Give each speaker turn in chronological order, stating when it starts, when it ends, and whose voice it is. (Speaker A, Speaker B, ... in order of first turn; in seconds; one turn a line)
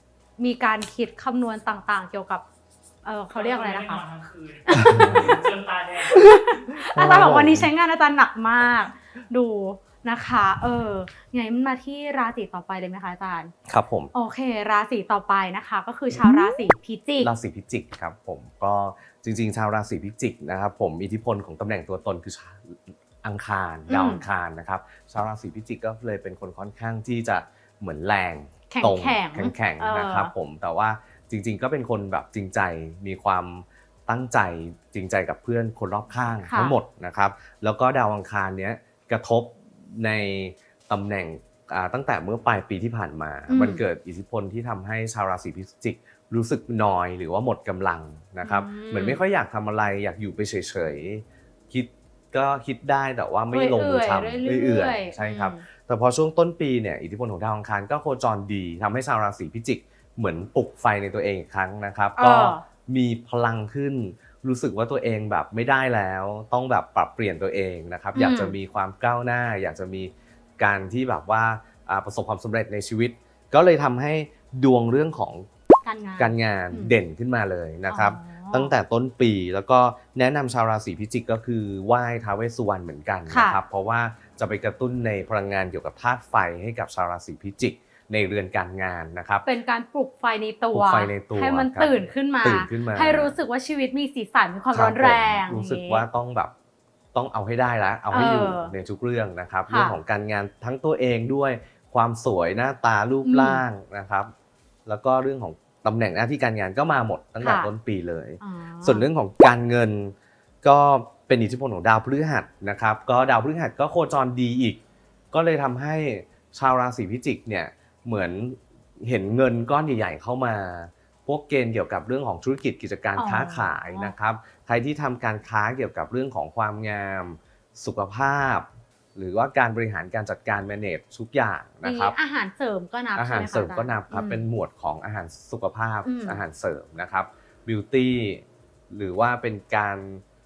Speaker A: 0.4-2.4
Speaker A: 3.0-4.0
Speaker B: 3.3-6.3
Speaker A: 4.7-5.4
Speaker C: 4.8-5.1
Speaker A: 6.1-13.5
Speaker C: 6.9-7.7
Speaker C: 13.7-14.1
Speaker A: 14.1-17.3
Speaker C: 17.2-75.5
Speaker A: 23.9-24.2
Speaker A: 28.7-30.3
Speaker A: 36.5-36.8
Speaker A: 43.5-43.8
Speaker A: 48.4-49.2
Speaker A: 53.5-55.6
Speaker A: 62.2-62.6
Speaker A: 68.2-68.6
Speaker A: 75.8-77.0
Speaker C: 76.2-89.5
Speaker A: 77.9-78.8
Speaker A: 83.3-83.6
Speaker A: 89.4-96.0
Speaker C: 90.7-93.3
Speaker C: 94.7-96.5
Speaker C: 97.1-104.3
Speaker A: 98.1-98.7
Speaker A: 99.7-100.0
Speaker A: 103.2-103.6
Speaker C: 104.9-114.8
Speaker A: 107.4-107.7
Speaker A: 108.4-109.1
Speaker C: 115.3-132.2
Speaker A: 123.2-124.2
Speaker A: 131.8-134.5
Speaker C: 133.2-140.2
Speaker A: 136.0-136.4